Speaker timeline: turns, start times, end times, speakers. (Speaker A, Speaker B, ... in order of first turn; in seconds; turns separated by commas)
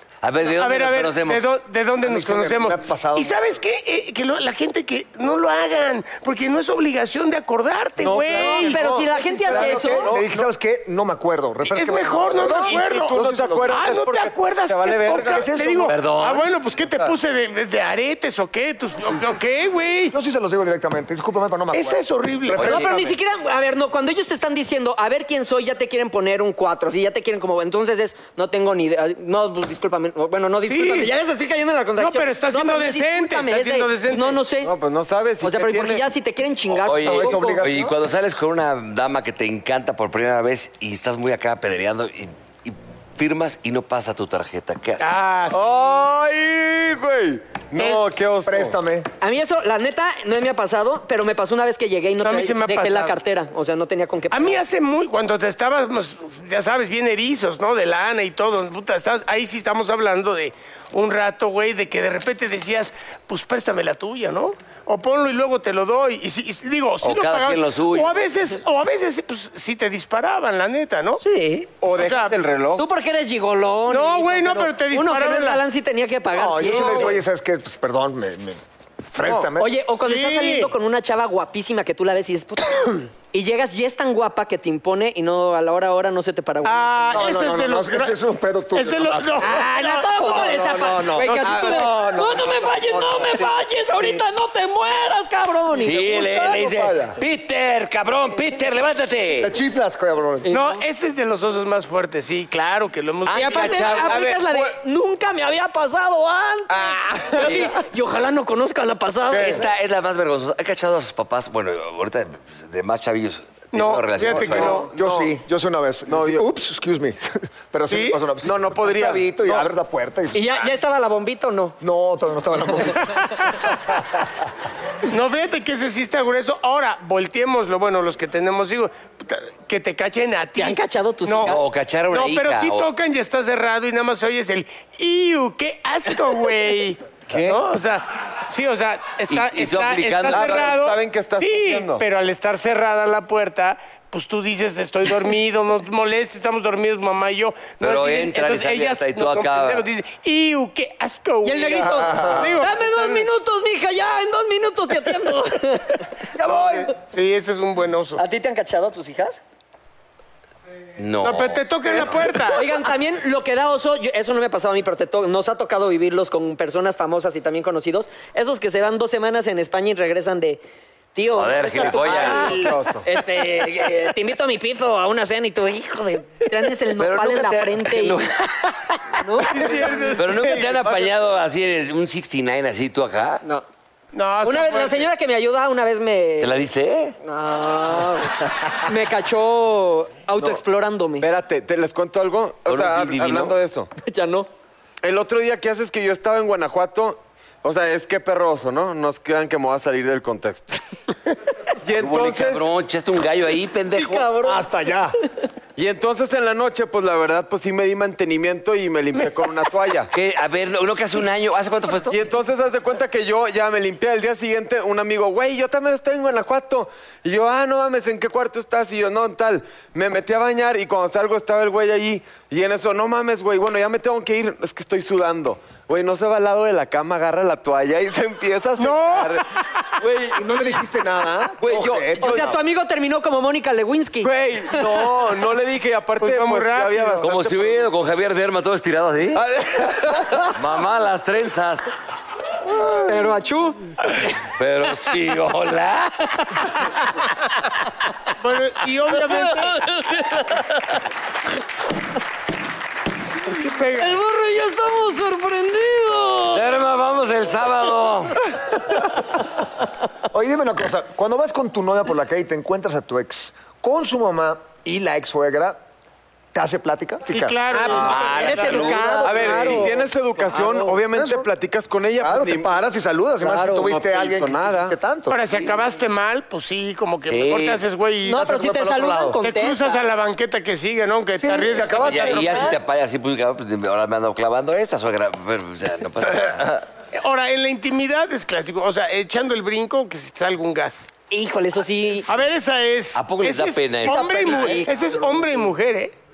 Speaker A: 0.2-1.5, Speaker B: 0.5-8.8, Speaker C: 2.0-3.3, Speaker D: 8.0-10.4, Speaker E: 8.3-10.1, Speaker C: 9.1-13.9, Speaker B: 11.7-13.2, Speaker D: 12.4-15.5, Speaker B: 13.7-20.1, Speaker C: 15.1-16.0, Speaker A: 15.9-16.4, Speaker D: 16.8-17.1, Speaker C: 20.1-23.2, Speaker B: 21.7-22.8, Speaker A: 22.5-22.9, Speaker E: 22.6-34.7, Speaker B: 30.7-31.1, Speaker B: 32.0-34.4, Speaker D: 34.6-36.1, Speaker E: 35.4-37.4, Speaker A: 36.8-45.1, Speaker C: 37.0-38.0, Speaker B: 45.0-45.7, Speaker D: 45.5-48.8, Speaker B: 47.8-48.1, Speaker C: 48.4-49.1, Speaker E: 49.2-54.6, Speaker B: 52.2-53.1, Speaker B: 54.3-71.2, Speaker A: 67.0-68.3, Speaker E: 71.2-71.7, Speaker D: 71.8-72.8, Speaker B: 71.9-72.4, Speaker E: 72.8-77.2, Speaker B: 73.9-75.7, Speaker C: 76.3-78.6, Speaker B: 76.8-77.1, Speaker C: 79.1-79.8, Speaker D: 79.2-79.5, Speaker E: 79.6-87.4, Speaker B: 80.0-80.7, Speaker B: 86.6-88.2, Speaker C: 87.1-94.2, Speaker B: 88.7-90.5, Speaker E: 89.4-96.1, Speaker B: 91.2-91.9, Speaker A: 95.8-99.5, Speaker C: 95.9-97.2, Speaker C: 99.4-100.5, Speaker E: 100.4-100.8, Speaker B: 100.5-104.2, Speaker E: 103.3-109.6, Speaker A: 103.4-104.1, Speaker A: 107.4-107.7, Speaker A: 109.3-114.8, Speaker B: 113.7-114.9, Speaker C: 114.3-120.7, Speaker D: 114.3-115.3, Speaker D: 116.1-116.4, Speaker B: 117.9-118.2, Speaker D: 118.4-119.7, Speaker E: 120.3-121.8, Speaker C: 121.8-124.2, Speaker B: 125.1-153.3, Speaker E: 130.6-131.6, Speaker A: 131.4-132.9, Speaker D: 137.3-137.6, Speaker A: 139.3-140.7, Speaker D: 140.3-142.0, Speaker A: 147.8-149.8, Speaker E: 151.4-156.2, Speaker C: 151.8-152.6, Speaker C: 156.3-156.9, Speaker B: 156.9-158.2, Speaker E: 158.2-159.4, Speaker A: 161.0-162.2, Speaker B: 161.2-162.8, Speaker E: 162.5-170.6, Speaker E: 171.2-178.2, Speaker A: 171.3-172.6, Speaker D: 172.0-173.1, Speaker A: 177.0-178.7, Speaker E: 179.1-180.1, Speaker B: 179.5-180.6, Speaker A: 180.2-183.4, Speaker D: 180.2-181.1, Speaker B: 184.1-185.1, Speaker E: 184.4-186.6, Speaker A: 186.4-187.2, Speaker E: 187.2-191.3, Speaker D: 191.2-193.9, Speaker A: 192.7-193.6, Speaker E: 194.0-194.5, Speaker D: 195.0-200.8, Speaker D: 201.8-202.7, Speaker A: 202.0-204.3, Speaker E: 203.9-204.7, Speaker C: 204.4-205.2, Speaker D: 205.8-210.1, Speaker A: 210.1-212.2, Speaker D: 212.1-230.3, Speaker B: 228.8-229.4, Speaker C: 230.3-232.6, Speaker A: 231.6-232.1, Speaker E: 232.2-234.8, Speaker D: 234.2-237.9, Speaker B: 236.2-237.2, Speaker A: 237.2-239.4, Speaker D: 239.3-240.5, Speaker A: 240.5-242.0, Speaker E: 243.0-243.8, Speaker A: 244.6-246.6, Speaker B: 248.4-249.8, Speaker E: 249.7-250.7, Speaker B: 253.5-254.2, Speaker E: 253.9-256.7, Speaker A: 256.5-258.5, Speaker C: 260.3-265.8, Speaker C: 266.5-267.6, Speaker B: 267.3-269.5, Speaker E: 267.7-271.0, Speaker D: 267.9-272.7, Speaker C: 268.2-269.9, Speaker C: 271.1-271.5, Speaker C: 272.2-275.4, Speaker E: 273.4-273.9, Speaker D: 273.8-274.9, Speaker B: 275.3-278.5, Speaker A: 277.2-277.8, Speaker E: 278.2-280.1, Speaker C: 278.3-279.4, Speaker B: 279.4-282.7, Speaker C: 281.4-282.8, Speaker A: 281.9-286.9, Speaker B: 287.1-291.1, Speaker E: 291.3-292.3, Speaker B: 292.3-296.1, Speaker A: 293.1-294.2, Speaker C: 294.0-295.0, Speaker E: 294.1-295.7